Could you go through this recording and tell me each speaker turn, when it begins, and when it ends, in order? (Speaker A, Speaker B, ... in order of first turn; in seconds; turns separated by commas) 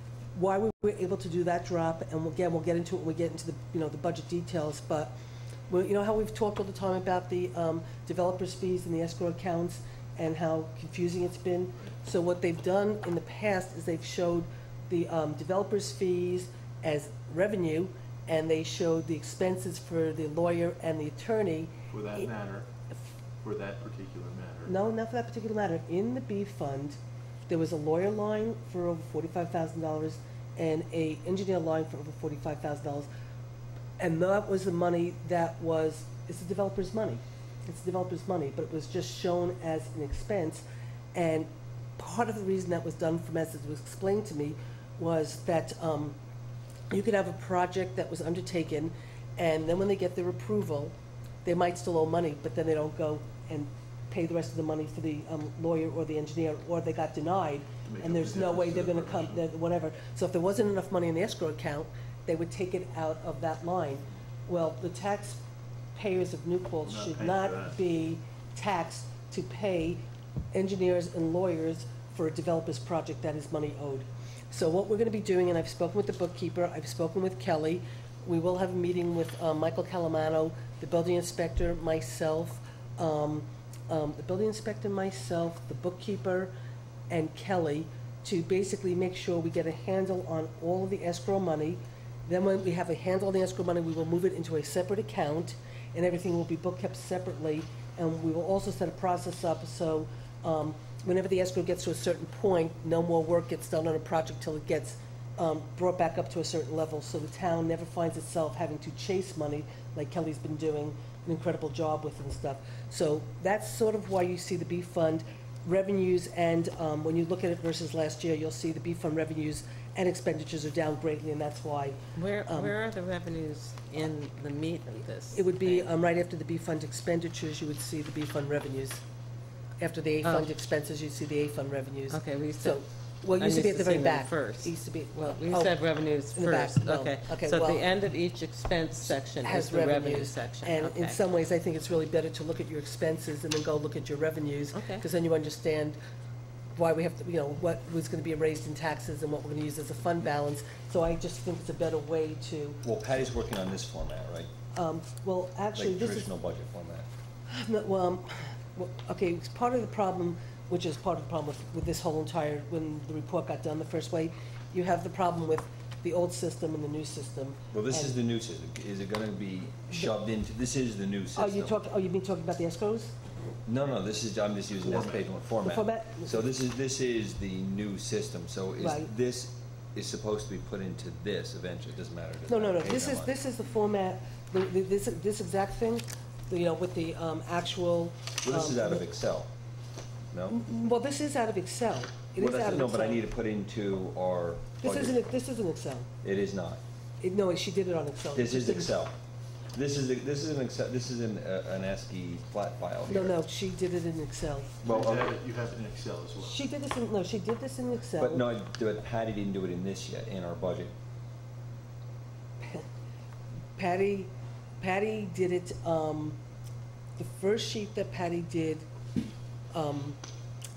Speaker A: 0.3-5.1, Speaker A: 5.7-22.3, Speaker B: 21.9-22.7, Speaker B: 23.4-24.7, Speaker A: 24.6-33.1, Speaker A: 34.0-46.1, Speaker A: 46.9-65.4, Speaker B: 57.8-59.4, Speaker A: 65.9-70.0, Speaker B: 66.8-67.8, Speaker A: 70.5-86.5, Speaker A: 87.1-122.7, Speaker C: 122.1-125.9, Speaker A: 125.3-129.0, Speaker A: 129.8-135.8, Speaker C: 130.2-130.5, Speaker C: 132.1-134.7, Speaker C: 135.2-141.2, Speaker A: 136.3-137.9, Speaker A: 139.0-146.0, Speaker C: 144.7-145.0, Speaker A: 146.8-152.8, Speaker D: 152.8-154.5, Speaker A: 154.7-156.3, Speaker D: 155.8-157.1, Speaker A: 157.5-168.1, Speaker D: 167.7-171.8, Speaker A: 171.3-173.1, Speaker D: 173.7-183.3, Speaker B: 174.8-175.2, Speaker A: 175.6-176.4, Speaker A: 178.8-179.1, Speaker A: 182.5-189.0, Speaker D: 188.4-189.5, Speaker D: 190.3-190.6, Speaker A: 190.5-193.2, Speaker D: 192.4-195.2, Speaker A: 194.8-196.1, Speaker D: 196.2-196.8, Speaker A: 197.2-199.0, Speaker D: 198.3-199.2, Speaker D: 199.7-203.4, Speaker A: 203.1-204.8, Speaker D: 204.8-205.4, Speaker B: 204.8-206.6, Speaker A: 206.4-208.5, Speaker D: 208.2-210.9, Speaker A: 212.6-212.9, Speaker A: 213.8-216.4, Speaker A: 217.2-218.9, Speaker A: 219.7-220.2